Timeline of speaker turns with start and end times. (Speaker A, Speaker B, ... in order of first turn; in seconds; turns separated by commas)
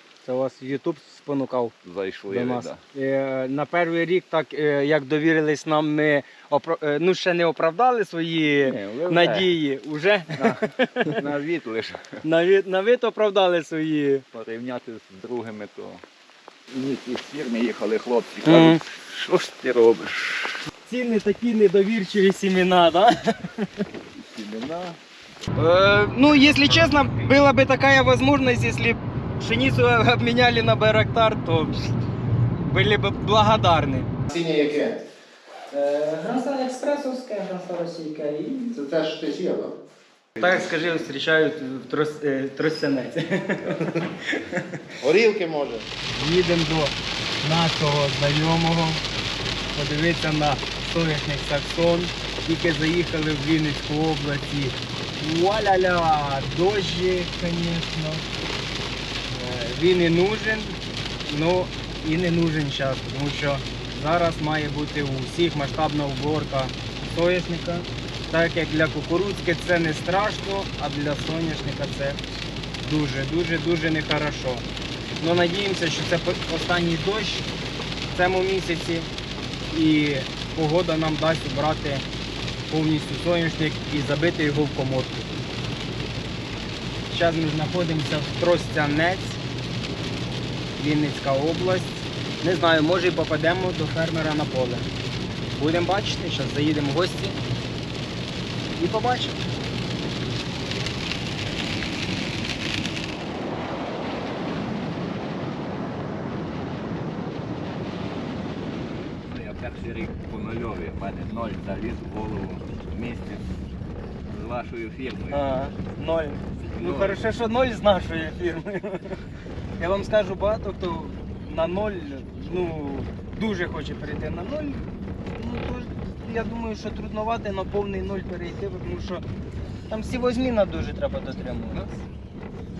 Speaker A: 0.2-1.7, Speaker B: 1.8-2.8, Speaker A: 2.3-11.2, Speaker B: 8.6-9.5, Speaker B: 10.3-12.2, Speaker A: 12.2-14.2, Speaker B: 14.3-16.0, Speaker B: 16.7-20.7, Speaker A: 18.4-18.8, Speaker A: 20.8-23.8, Speaker B: 24.1-25.0, Speaker A: 25.5-31.9, Speaker A: 32.6-34.1, Speaker C: 34.3-35.0, Speaker A: 35.7-38.7, Speaker C: 38.7-39.7, Speaker B: 40.4-40.7, Speaker A: 40.4-44.1, Speaker C: 45.0-45.9, Speaker A: 46.1-49.0, Speaker A: 49.7-58.2, Speaker A: 59.3-72.2, Speaker A: 72.8-74.6, Speaker A: 75.2-77.5, Speaker A: 78.1-79.1, Speaker A: 79.7-82.0, Speaker A: 82.7-85.3, Speaker A: 87.1-89.4, Speaker A: 90.8-94.9, Speaker A: 95.6-97.4, Speaker A: 98.8-99.5, Speaker B: 109.2-113.4, Speaker B: 114.2-115.5, Speaker A: 115.3-119.2, Speaker B: 116.6-117.2, Speaker A: 119.8-129.2, Speaker A: 129.9-131.9